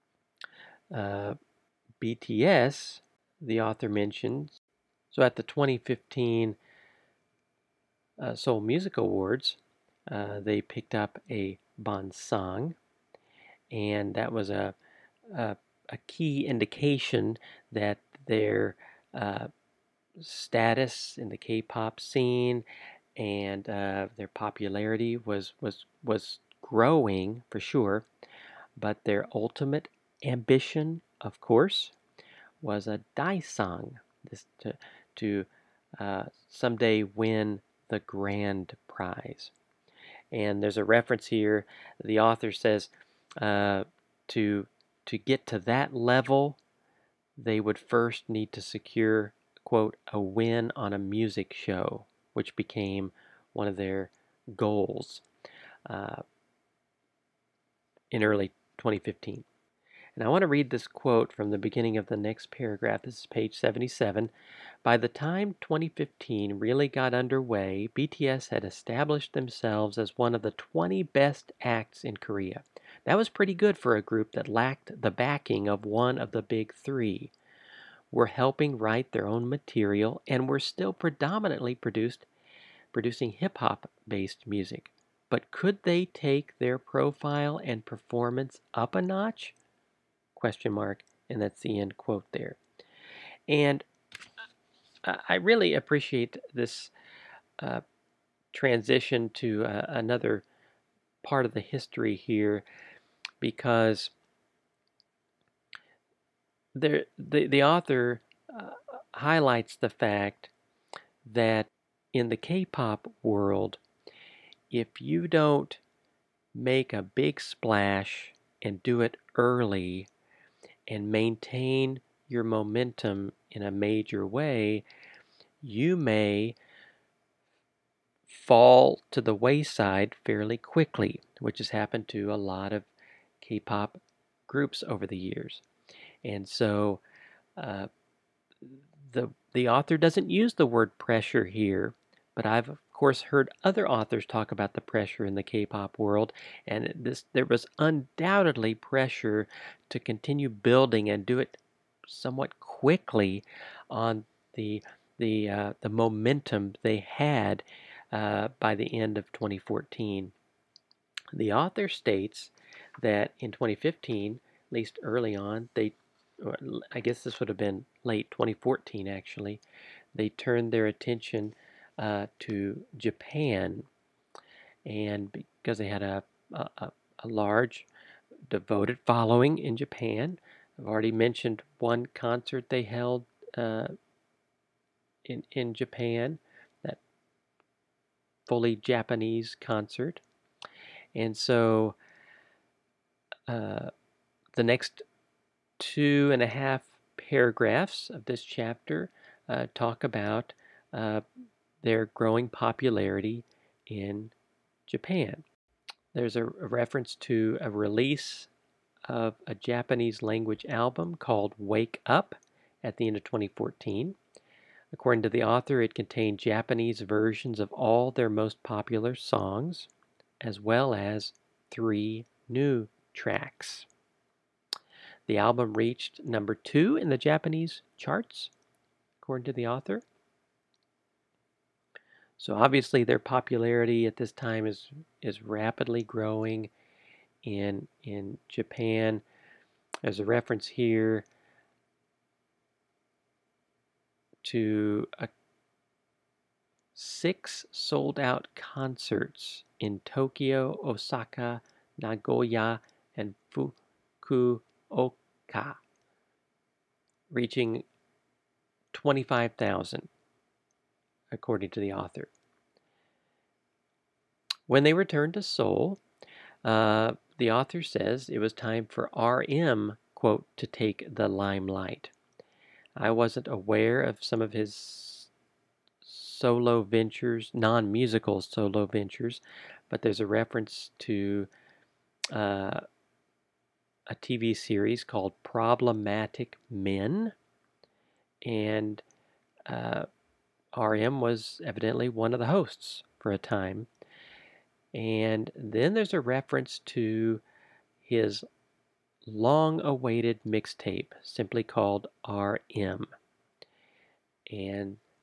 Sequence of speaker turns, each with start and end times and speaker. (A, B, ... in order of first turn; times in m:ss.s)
0:00.9-0:01.4 A
0:02.0-0:04.6 A
0:05.1-0:06.6 A
0:08.2-0:12.8 A
0:13.7-0:14.8 A
0:15.3-0:19.5 A
0:20.2-0:22.6 A
0:23.2-0:28.1 A
0:28.8-0:32.0 A
0:32.6-0:35.5 A
0:36.0-0:39.5 A
0:40.3-0:46.6 A
0:47.4-0:55.3 A
0:55.9-0:56.2 A
0:58.1-0:59.5 A
1:00.2-1:04.3 A
1:04.8-1:17.3 A
1:18.1-1:22.3 A
1:22.9-1:29.6 A
1:30.4-1:32.6 A
1:33.5-1:33.9 A
1:35.0-1:36.9 A
1:38.5-1:40.4 A
1:41.2-1:42.6 A
1:43.4-1:44.1 A
1:46.8-1:50.5 A
1:51.2-1:53.8 A
1:54.7-1:55.8 A
1:56.6-2:00.1 A
2:00.9-2:04.8 A
2:05.6-2:06.6 A
2:08.3-2:12.9 A
2:13.4-2:15.6 A
2:16.2-2:17.0 A
2:17.6-2:17.9 A
2:18.6-2:40.3 A
2:41.3-2:49.6 A
2:50.1-2:53.9 A
2:54.9-2:57.9 A
2:58.5-3:03.9 A
3:05.3-3:07.0 A
3:08.5-3:10.2 A
3:11.2-3:12.0 A
3:13.5-3:13.9 A
3:14.6-3:15.0 A
3:15.8-3:21.2 A
3:21.8-3:24.3 A
3:24.9-3:25.4 A
3:26.1-3:28.5 A
3:29.1-3:34.2 A
3:34.9-3:39.9 A
3:40.4-3:43.9 A
3:45.3-3:48.5 A
3:49.2-3:50.0 A
3:52.4-3:56.7 A
3:57.4-3:59.2 A
4:00.0-4:01.3 A
4:04.4-4:05.3 A
4:07.0-4:15.8 A
4:17.3-4:17.8 A
4:18.9-4:20.1 A
4:21.3-4:22.3 A
4:24.7-4:26.0 A
4:26.6-4:32.1 A
4:33.0-4:35.3 A
4:36.0-4:41.5 A
4:42.3-4:42.8 A
4:44.1-4:47.4 A
4:48.4-4:49.0 A
4:49.7-4:50.1 A
4:50.8-4:53.9 A
4:54.9-4:57.4 A
4:58.0-4:58.4 A
4:59.3-5:03.1 A
5:04.5-5:05.0 A